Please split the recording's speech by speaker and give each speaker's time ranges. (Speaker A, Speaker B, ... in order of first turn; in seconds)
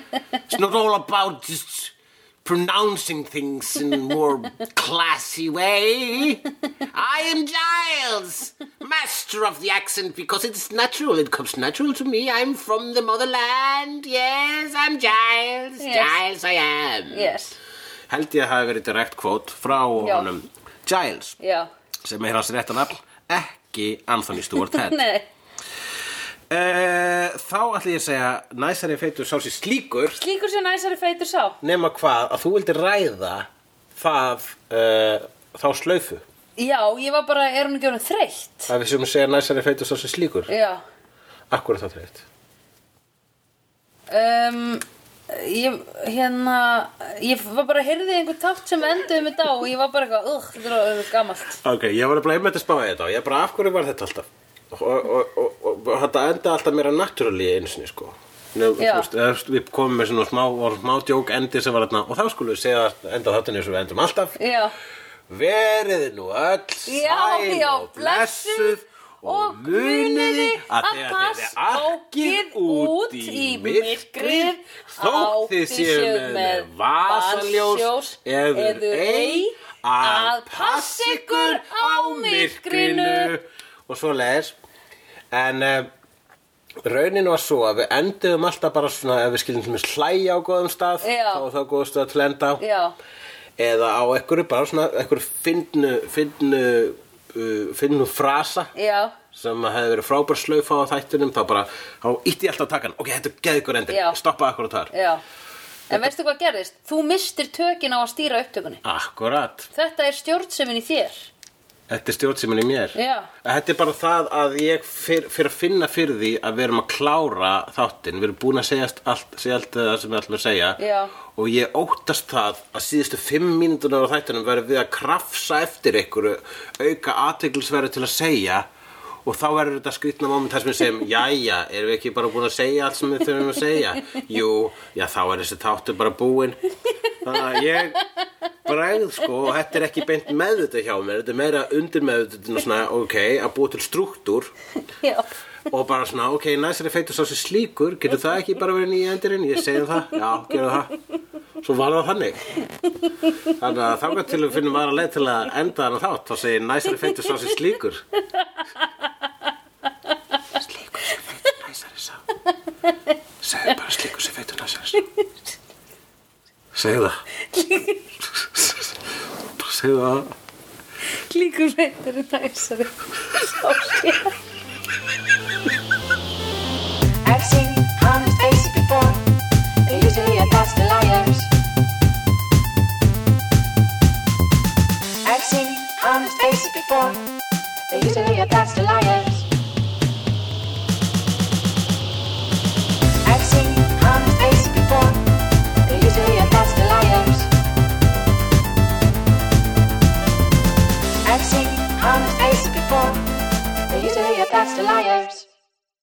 Speaker A: 0.5-17.3, 18.1-21.4, 22.0-25.0, 26.5-30.2, 31.6-36.2, 38.7-40.5, 41.5-42.2, 51.6-64.4, 65.3-84.5, 85.3-85.9, 86.8-92.6, 93.6-98.7, 99.3-104.9, 108.8-109.7, 111.9-128.7, 129.2-136.6, 137.2-138.0, 138.7-144.5, 145.7-150.9, 151.6-152.4, 153.6-158.0, 160.6-162.2, 163.4-165.0, 166.7-167.2, 168.4-168.9, 169.6-170.3
Speaker B: 15.8-16.2, 17.1-17.6, 20.0-20.3, 21.4-21.7, 24.7-25.2, 30.2-31.6, 36.6-38.7, 40.5-40.8, 44.1-51.6, 58.8-59.1, 64.4-64.7, 66.9-83.3, 91.0-91.5, 92.6-93.0, 98.8-99.2, 103.9-104.2, 104.9-105.2, 105.9-108.8, 109.7-111.3, 113.0-113.3, 120.8-121.1, 167.5-168.0, 171.2-174.3
Speaker C: 177.2-179.2, 179.9-181.5, 185.2-187.2, 187.9-189.5, 193.2-195.2, 195.8-197.5, 201.2-203.2, 203.9-205.5